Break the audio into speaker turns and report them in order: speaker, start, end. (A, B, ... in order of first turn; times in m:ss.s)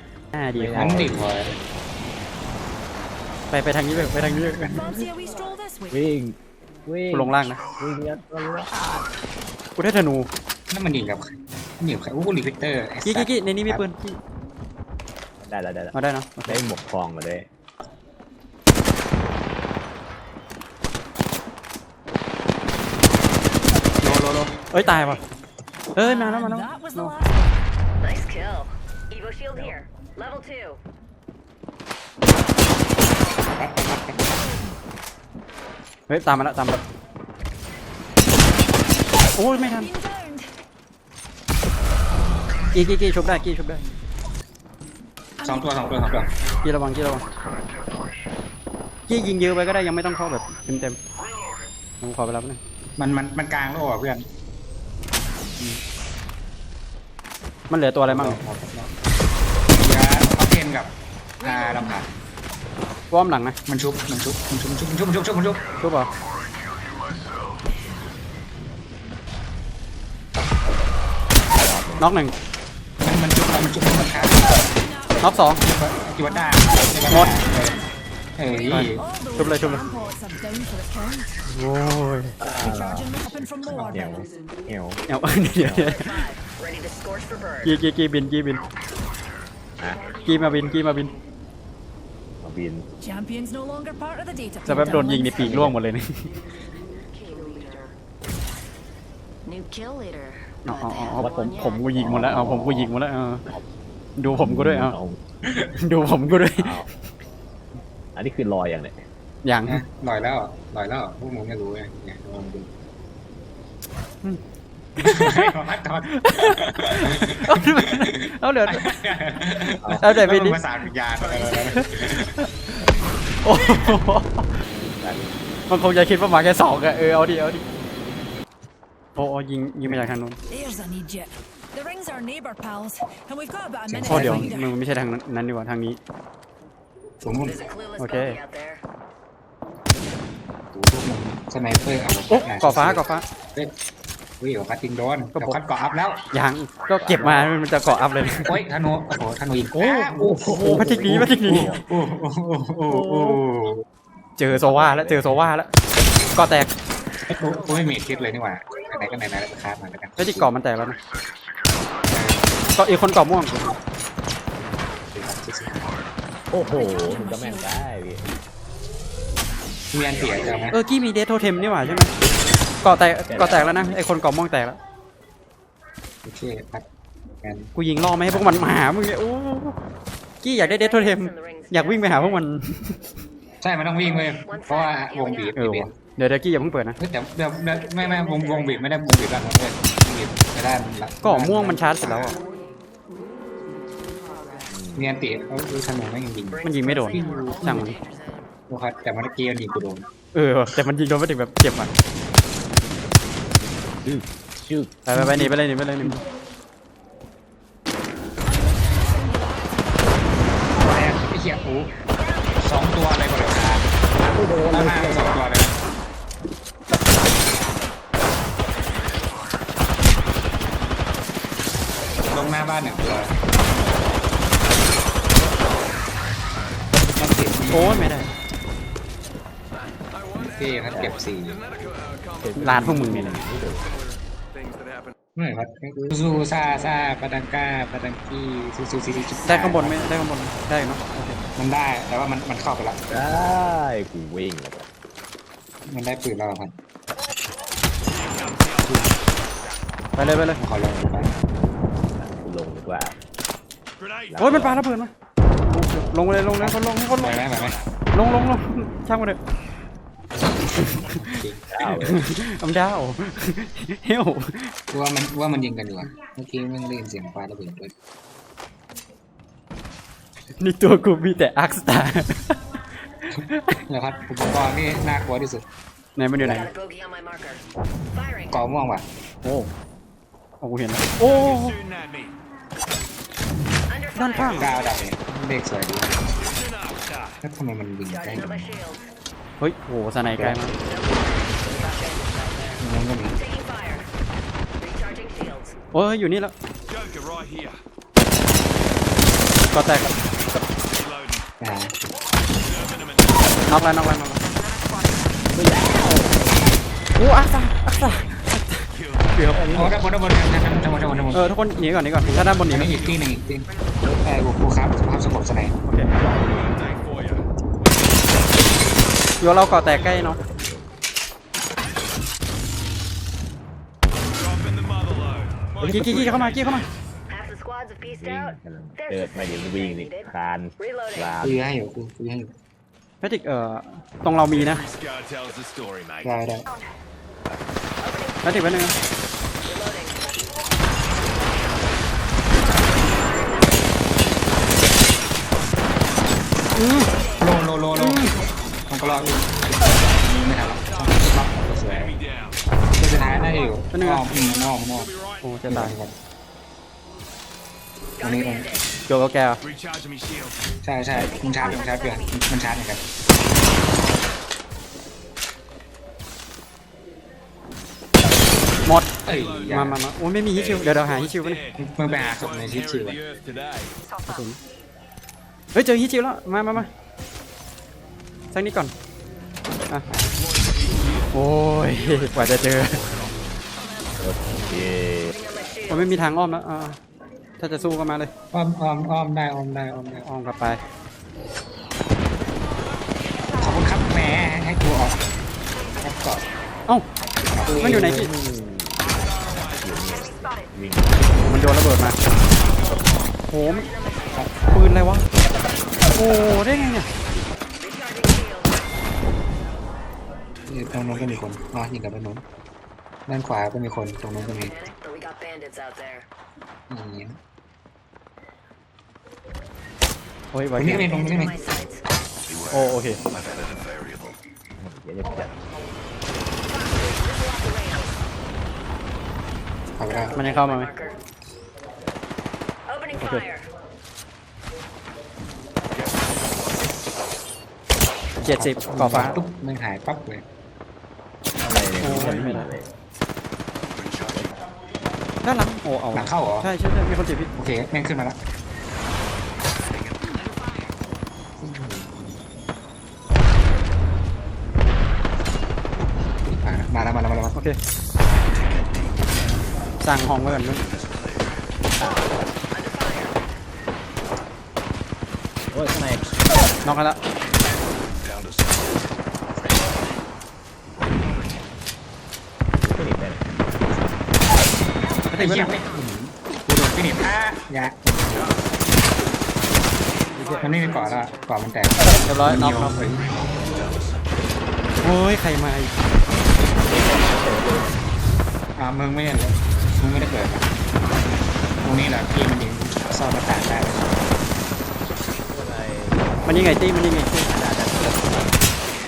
0:00.3-0:01.0 A
0:00.5-0:01.3 B
0:00.7-0:01.6 C
0:03.5-0:04.9 A
0:04.8-0:05.9 D
0:04.8-0:05.2 B
0:05.9-0:09.1 B
0:07.1-0:07.6 A
0:09.8-0:10.3 A
0:10.7-0:13.8 C
0:13.0-0:14.2 A
0:15.4-0:15.9 B
0:15.9-0:16.6 A
0:16.4-0:17.5 B
0:24.0-0:25.2 A
0:25.9-0:27.1 A
0:26.0-0:27.4 D
0:28.0-0:30.8 E
0:33.5-0:34.2 C
0:36.1-0:36.8 A
0:39.4-0:39.9 A
0:39.9-0:40.5 D
0:42.7-0:43.8 A
0:45.4-0:46.3 C
0:46.6-0:47.2 A
0:49.1-0:51.0 A
0:52.0-0:52.6 A
0:53.0-0:54.2 C
0:57.7-0:58.4 A
0:58.1-0:58.9 C
0:59.8-1:02.1 C
1:03.1-1:03.6 A
1:03.7-1:05.7 C
1:05.8-1:06.1 A
1:11.5-1:12.0 B
1:12.0-1:12.3 A
1:13.0-1:14.6 C
1:14.9-1:15.2 D
1:15.2-1:15.6 A
1:15.6-1:17.8 C
1:16.3-1:17.1 D
1:17.1-1:17.4 A
1:18.4-1:19.0 C
1:18.7-1:19.8 A
1:18.7-1:21.3 D
1:21.5-1:22.4 A
1:22.4-1:25.0 B
1:22.6-1:24.0 D
1:25.1-1:26.1 A
1:25.6-1:25.9 B
1:25.8-1:27.7 E
1:27.6-1:28.6 A
1:29.8-1:30.2 B
1:30.2-1:31.1 A
1:32.4-1:32.9 B
1:33.0-1:35.5 D
1:34.6-1:36.3 A
1:35.3-1:35.8 B
1:37.0-1:37.9 E
1:39.4-1:41.8 E
1:40.6-1:43.4 A
1:41.2-1:42.9 B
1:44.2-1:45.0 A
1:44.2-1:45.2 B
1:45.7-1:46.7 A
1:46.5-1:46.9 B
1:48.1-1:49.0 B
1:49.4-1:49.8 A
1:49.7-1:52.7 C
1:55.0-1:55.5 A
1:55.0-2:02.3 C
1:56.1-1:58.9 A
2:00.0-2:00.6 A
2:01.3-2:02.5 A
2:02.8-2:03.1 B
2:03.4-2:04.5 A
2:04.6-2:05.3 B
2:05.7-2:07.6 A
2:09.2-2:10.4 A
2:09.8-2:10.1 C
2:10.5-2:14.4 D
2:13.9-2:14.6 C
2:14.1-2:16.0 A
2:17.2-2:17.7 C
2:17.4-2:18.8 E
2:18.0-2:18.4 A
2:20.7-2:23.7 C
2:22.3-2:23.2 A
2:24.4-2:26.2 C
2:25.3-2:25.6 A
2:26.3-2:28.5 A
2:26.9-2:27.5 B
2:28.4-2:33.8 C
2:29.7-2:31.8 B
2:30.5-2:31.7 A
2:32.9-2:33.4 B
2:34.4-2:35.7 A
2:34.5-2:35.5 B
2:36.3-2:36.7 A
2:37.3-2:40.5 C
2:40.2-2:41.0 A
2:42.1-2:42.5 C
2:42.8-2:43.8 A
2:45.1-2:45.8 C
2:46.5-2:48.2 B
2:46.8-2:47.6 D
2:49.9-2:50.8 C
2:50.2-2:50.7 B
2:50.7-2:52.1 A
2:52.8-2:54.8 A
2:53.3-2:54.1 B
2:56.2-2:56.8 C
2:57.4-2:57.7 C
2:57.7-2:59.8 A
2:58.3-2:58.6 C
3:00.4-3:03.0 A
3:00.7-3:02.0 E
3:03.6-3:05.9 C
3:04.4-3:05.5 E
3:05.6-3:07.0 A
3:07.0-3:12.4 C
3:11.2-3:12.4 A
3:14.7-3:15.2 B
3:15.0-3:17.9 C
3:16.6-3:18.0 A
3:16.7-3:18.5 E
3:18.7-3:20.1 C
3:20.3-3:21.9 A
3:23.9-3:25.0 B
3:25.1-3:26.2 A
3:25.1-3:25.4 C
3:30.8-3:31.9 C
3:32.6-3:33.8 C
3:34.2-3:35.4 B
3:34.7-3:35.8 C
3:42.2-3:43.3 C
3:47.2-3:48.2 C
3:47.7-3:48.3 A
3:50.4-3:51.6 C
3:51.7-3:52.3 F
3:52.4-3:53.8 B
3:52.6-3:53.4 A
3:55.4-4:00.0 C
3:59.4-4:01.4 A
4:01.6-4:03.2 C
4:03.1-4:04.9 B
4:05.8-4:06.7 C
4:08.2-4:08.8 F
4:10.2-4:10.6 A
4:10.6-4:11.3 C
4:12.1-4:13.2 B
4:14.0-4:14.3 F
4:14.3-4:14.8 B
4:14.4-4:15.1 A
4:15.7-4:17.4 A
4:16.6-4:17.8 C
4:18.1-4:19.4 A
4:20.5-4:21.9 C
4:20.8-4:21.1 A
4:21.8-4:22.2 B
4:21.8-4:24.7 A
4:24.9-4:27.9 C
4:30.6-4:32.6 A
4:33.3-4:33.7 A
4:33.9-4:35.6 C
4:36.2-4:36.7 A
4:36.4-4:38.6 E
4:38.5-4:39.1 C
4:39.4-4:39.7 A
4:40.6-4:41.8 A
4:41.6-4:42.3 F
4:43.9-4:44.8 E
4:44.1-4:44.7 A
4:44.4-4:46.1 C
4:46.4-4:47.3 F
4:47.4-4:48.7 C
4:48.1-4:49.0 E
4:49.6-4:50.7 A
4:50.3-4:50.6 C
4:50.8-4:52.8 E
4:52.8-4:53.4 C
4:53.3-4:54.1 E
4:54.8-4:55.7 E
4:55.9-4:56.5 A
4:57.1-4:57.7 F
4:59.7-5:00.1 A
5:00.9-5:01.3 F
5:01.6-5:01.9 C
5:02.8-5:03.6 F
5:03.7-5:04.4 A
5:05.5-5:06.7 B
5:07.2-5:09.6 A
5:08.9-5:09.6 F
5:09.5-5:10.0 B
5:09.7-5:11.4 C
5:11.0-5:11.3 F
5:11.3-5:12.9 A
5:12.7-5:15.7 C
5:15.8-5:16.1 A
5:16.2-5:16.5 B
5:16.5-5:17.4 F
5:19.4-5:20.4 A
5:20.1-5:20.8 B
5:24.7-5:26.8 F
5:25.8-5:26.3 B
5:25.9-5:26.9 A
5:27.3-5:30.3 E
5:28.0-5:31.6 B
5:30.8-5:31.3 E
5:31.4-5:32.5 C
5:33.2-5:34.8 A
5:34.5-5:36.4 F
5:36.2-5:36.6 C
5:38.0-5:38.4 E
5:38.4-5:38.9 A
5:39.6-5:40.4 E
5:46.7-5:47.1 A
5:47.1-5:47.4 E
5:47.4-5:52.2 C
5:48.0-5:48.3 A
5:53.0-5:55.1 C
5:53.9-5:54.3 A
5:55.4-5:56.0 A
5:55.7-5:56.1 C
5:58.2-5:58.7 C
5:59.1-5:59.6 A
6:00.8-6:03.0 C
6:01.4-6:02.2 E
6:09.2-6:10.0 C
6:09.7-6:11.6 A
6:11.6-6:14.0 F
6:11.8-6:13.2 C
6:14.3-6:14.6 A
6:15.7-6:16.9 A
6:18.5-6:18.9 A
6:20.1-6:20.5 C
6:20.3-6:21.3 F
6:21.3-6:23.0 A
6:22.0-6:23.3 F
6:24.2-6:25.3 B
6:25.9-6:27.0 A
6:27.6-6:28.3 A
6:28.5-6:30.2 C
6:30.2-6:30.8 A
6:33.6-6:35.2 C
6:36.0-6:36.4 C
6:37.5-6:38.3 C
6:37.7-6:41.4 B
6:37.8-6:38.3 A
6:41.4-6:42.2 A
6:43.5-6:43.9 A
6:43.9-6:44.4 E
6:44.7-6:45.3 A
6:46.1-6:47.1 A
6:47.8-6:48.7 E
6:50.7-6:52.4 C
6:51.0-6:51.4 F
6:53.3-6:54.8 C
6:54.5-6:56.2 E
6:56.9-6:57.4 C
7:00.5-7:01.1 A
7:00.8-7:01.6 C
7:00.9-7:02.0 E
7:02.5-7:04.4 F
7:02.7-7:03.2 A
7:04.8-7:05.6 B
7:06.7-7:08.2 E
7:10.0-7:10.4 C
7:10.3-7:11.1 E
7:10.3-7:10.9 A
7:12.9-7:13.6 E
7:16.0-7:16.6 F
7:18.4-7:20.4 C
7:18.4-7:19.4 A
7:21.6-7:22.9 B
7:22.0-7:22.7 A
7:23.9-7:24.6 F
7:25.4-7:27.5 A
7:26.1-7:26.7 C
7:27.6-7:28.4 C
7:31.6-7:32.3 C
7:36.5-7:37.6 C
7:38.5-7:39.1 F
7:40.0-7:40.8 A
7:40.5-7:41.5 F
7:42.0-7:42.3 B
7:42.7-7:43.3 E
7:45.7-7:46.3 B
7:46.8-7:47.2 A
7:47.9-7:49.1 F
7:52.8-7:53.5 B
7:55.3-7:55.7 A
7:55.3-7:58.6 C
8:00.4-8:00.7 B
8:00.6-8:03.4 C
8:02.2-8:03.0 A
8:03.1-8:04.4 F
8:05.0-8:05.9 A
8:06.6-8:08.0 B
8:08.8-8:10.7 C
8:11.8-8:14.2 C
8:12.9-8:13.6 F
8:15.5-8:18.7 B
8:16.4-8:17.4 A